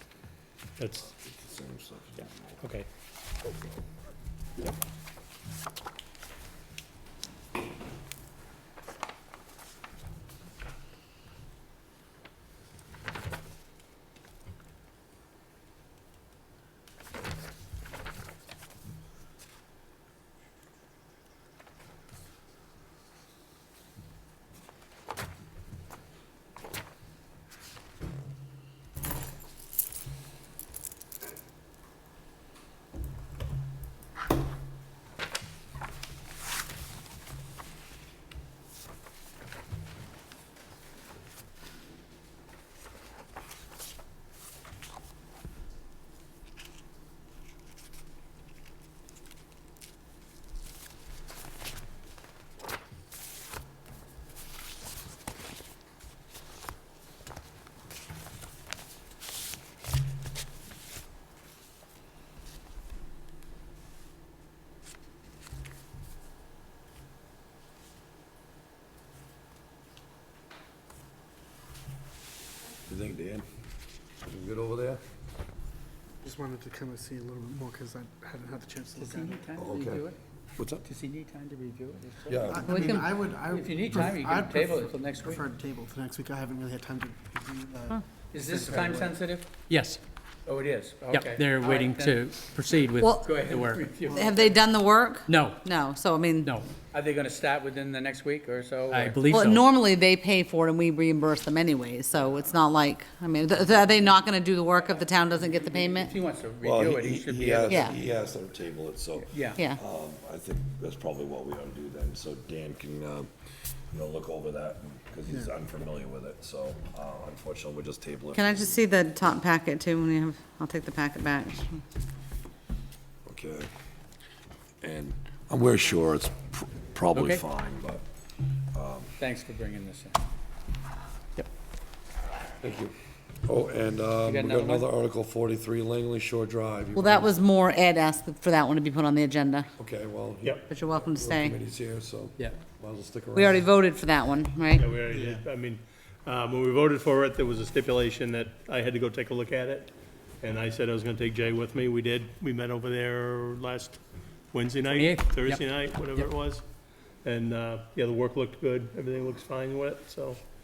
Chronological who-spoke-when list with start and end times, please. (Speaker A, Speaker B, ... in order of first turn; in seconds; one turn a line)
Speaker A: 0.8-1.1
Speaker B: 1.0-2.7
Speaker B: 72.9-73.5
Speaker B: 74.2-75.0
Speaker C: 76.2-79.5
Speaker D: 79.0-80.2
Speaker B: 79.6-80.0
Speaker B: 80.6-80.8
Speaker D: 80.8-85.4
Speaker B: 82.2-82.8
Speaker C: 82.5-89.2
Speaker E: 82.6-83.1
Speaker D: 88.3-89.5
Speaker F: 89.7-90.0
Speaker D: 90.5-92.2
Speaker F: 91.1-93.9
Speaker E: 93.0-93.4
Speaker D: 93.2-94.6
Speaker E: 94.1-96.5
Speaker F: 95.3-95.6
Speaker F: 96.4-96.7
Speaker D: 96.9-99.4
Speaker F: 98.9-99.6
Speaker E: 99.3-106.1
Speaker D: 104.7-107.8
Speaker B: 106.6-113.3
Speaker E: 107.7-107.9
Speaker D: 109.3-109.6
Speaker B: 113.9-118.8
Speaker E: 118.3-121.8
Speaker B: 123.3-123.7
Speaker B: 124.8-128.0
Speaker D: 127.1-127.4
Speaker B: 128.7-129.1
Speaker D: 129.2-130.2
Speaker B: 132.6-137.3
Speaker D: 134.2-134.9
Speaker E: 136.9-139.7
Speaker B: 139.8-143.7
Speaker E: 140.7-141.6
Speaker E: 143.3-144.9
Speaker A: 144.7-160.4
Speaker C: 145.1-145.4
Speaker F: 154.9-156.3